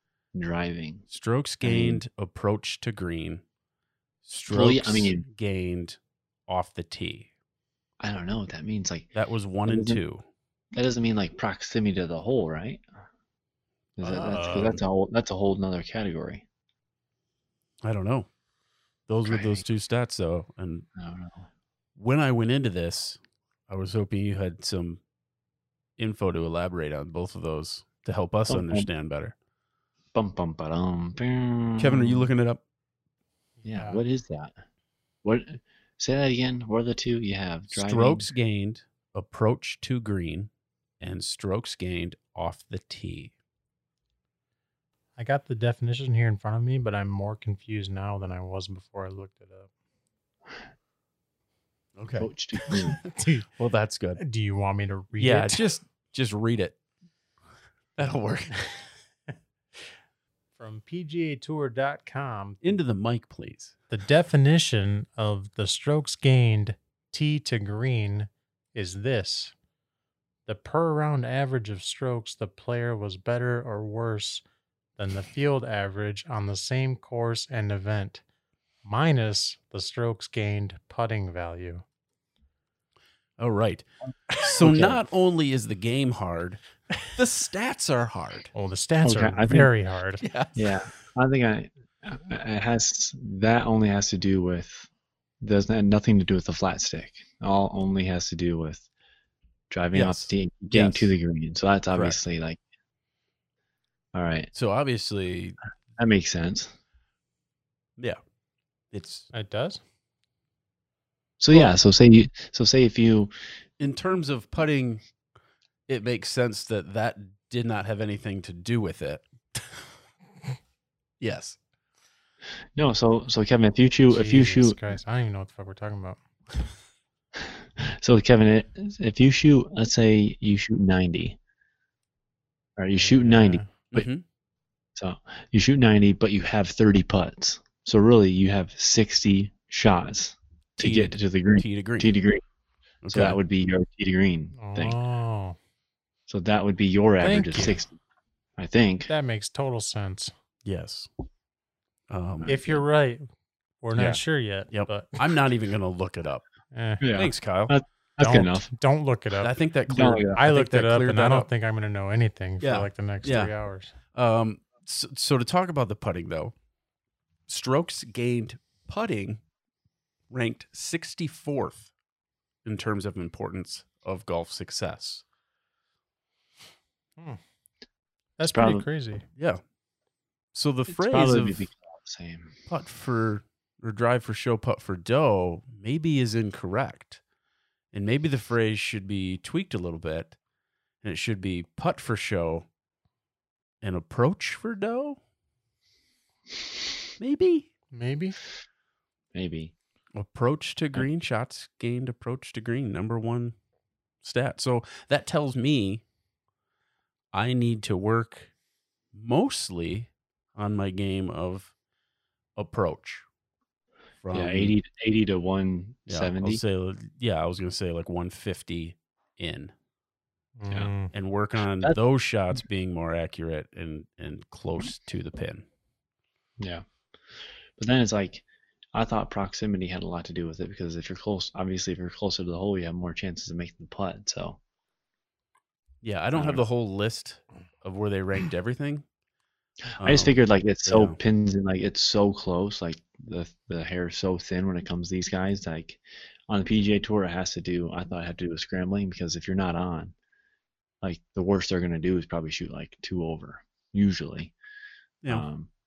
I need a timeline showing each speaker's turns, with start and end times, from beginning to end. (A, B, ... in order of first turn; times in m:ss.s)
0:00.3-0:01.0 A
0:01.1-0:03.4 B
0:01.6-0:02.0 A
0:04.2-0:07.3 B
0:04.5-0:05.2 A
0:08.0-0:09.1 A
0:09.1-0:10.2 B
0:09.6-0:10.0 A
0:10.7-0:12.8 A
0:14.0-0:16.4 A
0:14.0-0:14.8 B
0:17.8-0:18.3 B
0:19.1-0:20.8 B
0:19.2-0:19.6 A
0:21.0-0:21.5 A
0:22.0-0:25.0 B
0:26.0-0:29.3 B
0:28.5-0:28.9 A
0:30.1-0:32.3 A
0:31.8-0:32.6 B
0:33.6-0:34.0 C
0:33.6-0:34.5 A
0:35.2-0:38.3 A
0:37.7-0:40.5 B
0:41.0-0:43.3 B
0:45.2-0:49.7 C
0:52.0-0:52.8 B
0:52.2-0:53.0 A
0:52.7-0:53.4 C
0:53.6-0:54.2 B
0:54.2-0:55.6 C
0:55.2-0:56.8 B
0:58.0-0:58.9 B
1:00.6-1:02.6 C
1:02.6-1:03.7 B
1:03.9-1:09.5 C
1:10.5-1:14.4 C
1:15.0-1:18.2 C
1:18.8-1:21.8 C
1:23.4-1:23.8 B
1:24.4-1:28.5 B
1:24.6-1:25.0 A
1:28.5-1:30.2 C
1:29.0-1:29.7 A
1:30.2-1:30.9 B
1:30.6-1:34.9 A
1:35.4-1:38.9 A
1:39.7-1:42.6 A
1:39.9-1:41.2 B
1:41.9-1:42.2 B
1:44.1-1:44.5 A
1:44.5-1:45.6 B
1:46.0-1:46.7 A
1:48.9-1:49.3 B
1:49.3-1:49.8 C
1:51.4-1:53.3 A
1:53.8-1:55.0 B
1:55.9-1:59.8 B
2:01.2-2:01.6 B
2:02.8-2:04.8 A
2:04.1-2:06.2 C
2:07.8-2:11.4 A
2:12.8-2:14.1 A
2:13.0-2:13.7 C
2:13.9-2:14.2 B
2:15.0-2:22.4 A
2:20.8-2:22.1 B
2:23.0-2:23.4 B
2:23.1-2:25.0 A
2:24.6-2:25.6 C
2:26.3-2:27.9 A
2:27.2-2:27.8 C
2:28.6-2:29.1 A
2:29.1-2:30.3 C
2:30.6-2:31.1 B
2:32.1-2:32.5 B
2:32.4-2:32.8 A
2:32.4-2:33.2 C
2:33.8-2:35.2 C
2:34.7-2:36.4 B
2:36.7-2:37.0 C
2:37.0-2:38.7 A
2:37.1-2:37.7 B
2:38.2-2:39.5 C
2:39.4-2:41.5 B
2:39.9-2:40.4 A
2:40.3-2:43.9 C
2:42.6-2:43.5 B
2:44.1-2:46.5 B
2:47.5-2:49.4 B
2:50.3-2:51.9 B
2:52.6-2:55.2 B
2:58.4-2:59.2 C
2:58.5-2:58.8 A
3:00.5-3:01.7 B
3:00.9-3:02.5 A
3:02.7-3:07.2 B
3:07.9-3:10.4 B
3:11.0-3:12.6 B
3:13.8-3:15.2 B
3:17.2-3:17.7 B
3:17.9-3:18.4 C
3:19.3-3:19.7 A
3:20.1-3:23.5 B
3:24.2-3:26.0 B
3:27.3-3:28.5 B
3:29.1-3:31.7 B
3:32.6-3:33.2 B
3:34.2-3:34.7 B
3:34.3-3:36.6 A
3:36.1-3:39.7 B
3:40.6-3:41.1 C
3:41.1-3:45.6 B
3:46.6-3:46.8 A
3:47.8-3:54.6 A
3:56.0-3:59.0 B
3:56.3-3:56.6 A
4:00.0-4:10.1 A
4:00.0-4:00.3 B
4:00.8-4:01.2 B
4:11.0-4:14.5 A
4:15.2-4:15.7 A